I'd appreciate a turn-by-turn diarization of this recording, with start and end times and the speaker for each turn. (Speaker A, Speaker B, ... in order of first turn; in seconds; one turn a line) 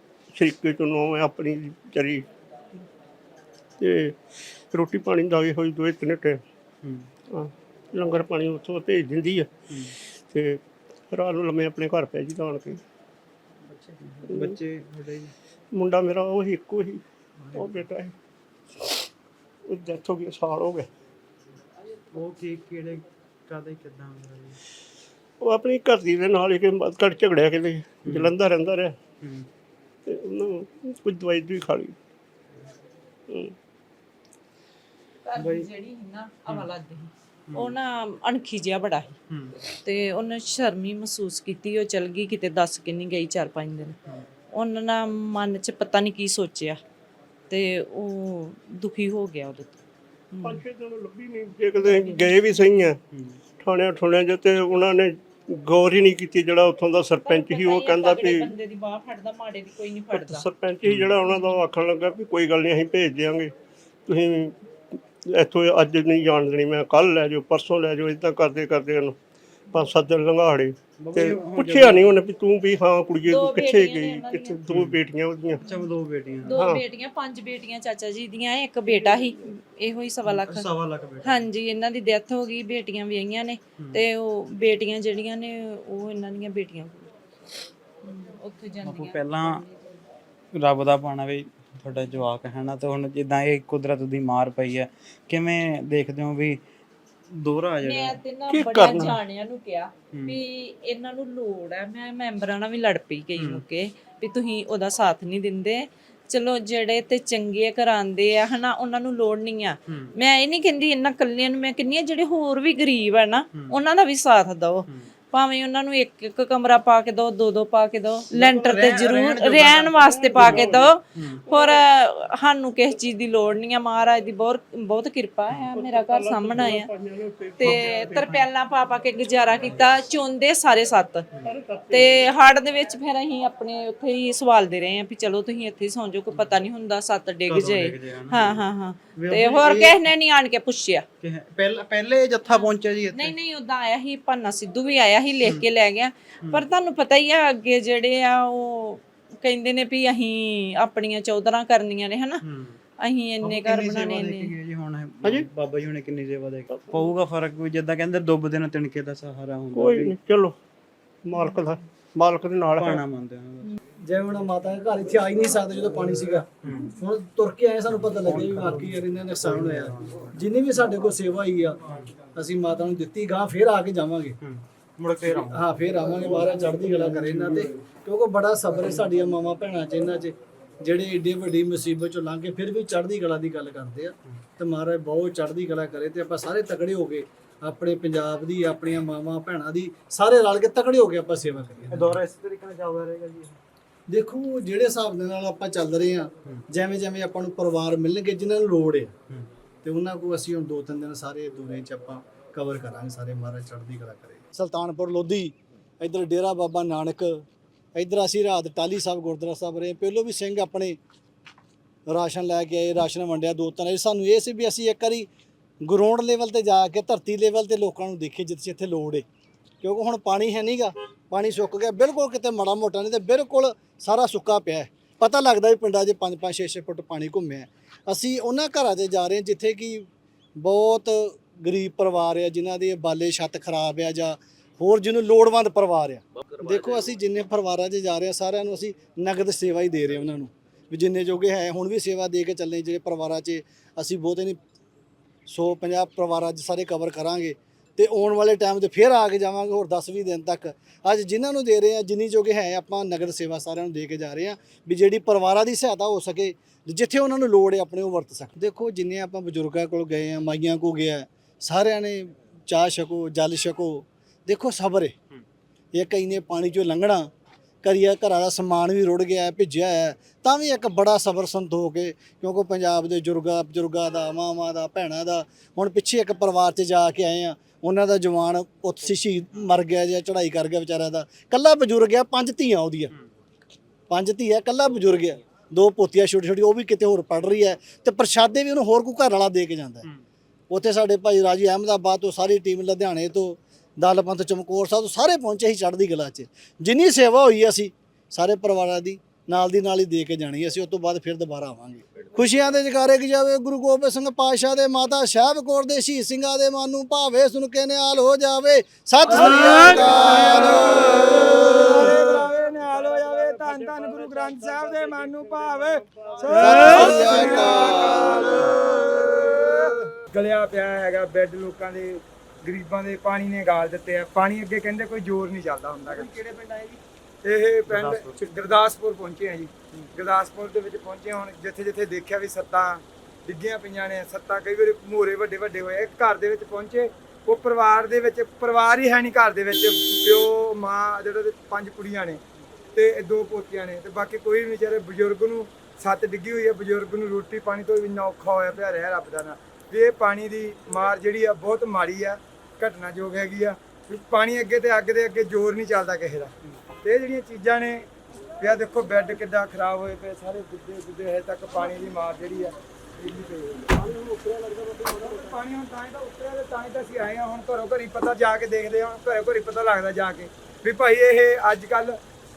Speaker A: 0.3-2.3
Speaker A: 3.8-6.4
Speaker B: 6.8-7.1
Speaker A: 7.3-9.5
Speaker A: 10.1-12.8
Speaker B: 13.7-15.3
Speaker A: 14.3-14.6
Speaker A: 15.7-17.0
Speaker B: 17.4-17.7
Speaker A: 17.5-18.1
Speaker A: 18.7-19.1
Speaker A: 19.7-20.9
Speaker B: 22.1-24.6
Speaker A: 25.4-28.9
Speaker B: 28.0-28.4
Speaker B: 29.2-29.5
Speaker A: 30.0-31.9
Speaker A: 33.3-33.5
Speaker C: 35.2-39.2
Speaker B: 35.4-35.7
Speaker B: 37.5-37.7
Speaker B: 39.3-39.6
Speaker C: 39.8-44.0
Speaker C: 44.5-46.8
Speaker C: 47.5-50.6
Speaker A: 50.4-53.0
Speaker C: 51.8-52.3
Speaker B: 53.1-53.4
Speaker A: 53.6-58.5
Speaker C: 57.2-60.5
Speaker A: 60.1-63.5
Speaker B: 60.8-61.1
Speaker A: 64.0-69.2
Speaker A: 69.7-75.7
Speaker B: 71.0-72.2
Speaker C: 73.2-74.6
Speaker B: 74.7-75.0
Speaker B: 75.7-76.5
Speaker C: 76.4-80.7
Speaker A: 76.5-76.8
Speaker B: 80.3-81.4
Speaker C: 81.2-87.1
Speaker B: 83.8-84.0
Speaker C: 88.0-89.7
Speaker B: 88.8-89.6
Speaker B: 90.5-96.6
Speaker B: 97.3-98.2
Speaker C: 97.8-126.9
Speaker A: 98.5-99.2
Speaker B: 100.1-100.4
Speaker B: 103.3-103.6
Speaker B: 109.9-110.1
Speaker B: 113.5-113.8
Speaker B: 118.3-120.0
Speaker A: 119.4-121.0
Speaker B: 121.1-121.4
Speaker A: 125.7-128.4
Speaker C: 127.6-131.2
Speaker A: 131.4-132.3
Speaker C: 131.9-141.0
Speaker B: 136.3-136.6
Speaker B: 137.4-138.6
Speaker B: 139.1-140.0
Speaker B: 141.2-143.3
Speaker C: 142.5-152.4
Speaker B: 152.4-152.8
Speaker C: 153.0-154.6
Speaker B: 153.4-160.2
Speaker A: 155.2-155.5
Speaker A: 156.7-157.0
Speaker A: 159.7-160.6
Speaker A: 161.2-163.0
Speaker B: 162.7-163.7
Speaker D: 164.0-171.8
Speaker B: 166.6-166.9
Speaker B: 168.2-170.3
Speaker B: 171.9-172.1
Speaker D: 172.3-174.4
Speaker B: 174.4-175.6
Speaker D: 175.5-192.2
Speaker B: 191.9-193.6
Speaker D: 194.1-199.1
Speaker D: 199.8-207.4
Speaker D: 207.9-211.0
Speaker D: 212.1-215.3
Speaker D: 215.8-219.2
Speaker D: 219.8-244.6
Speaker D: 245.5-265.1
Speaker D: 265.9-267.3
Speaker D: 267.8-283.1
Speaker D: 284.1-290.1
Speaker D: 290.7-311.8
Speaker E: 309.3-326.4
Speaker A: 309.4-310.0
Speaker A: 312.8-317.3
Speaker D: 316.5-318.5
Speaker E: 327.4-342.4
Speaker E: 342.9-358.0
Speaker E: 358.6-364.1
Speaker A: 364.2-364.9
Speaker E: 365.1-372.2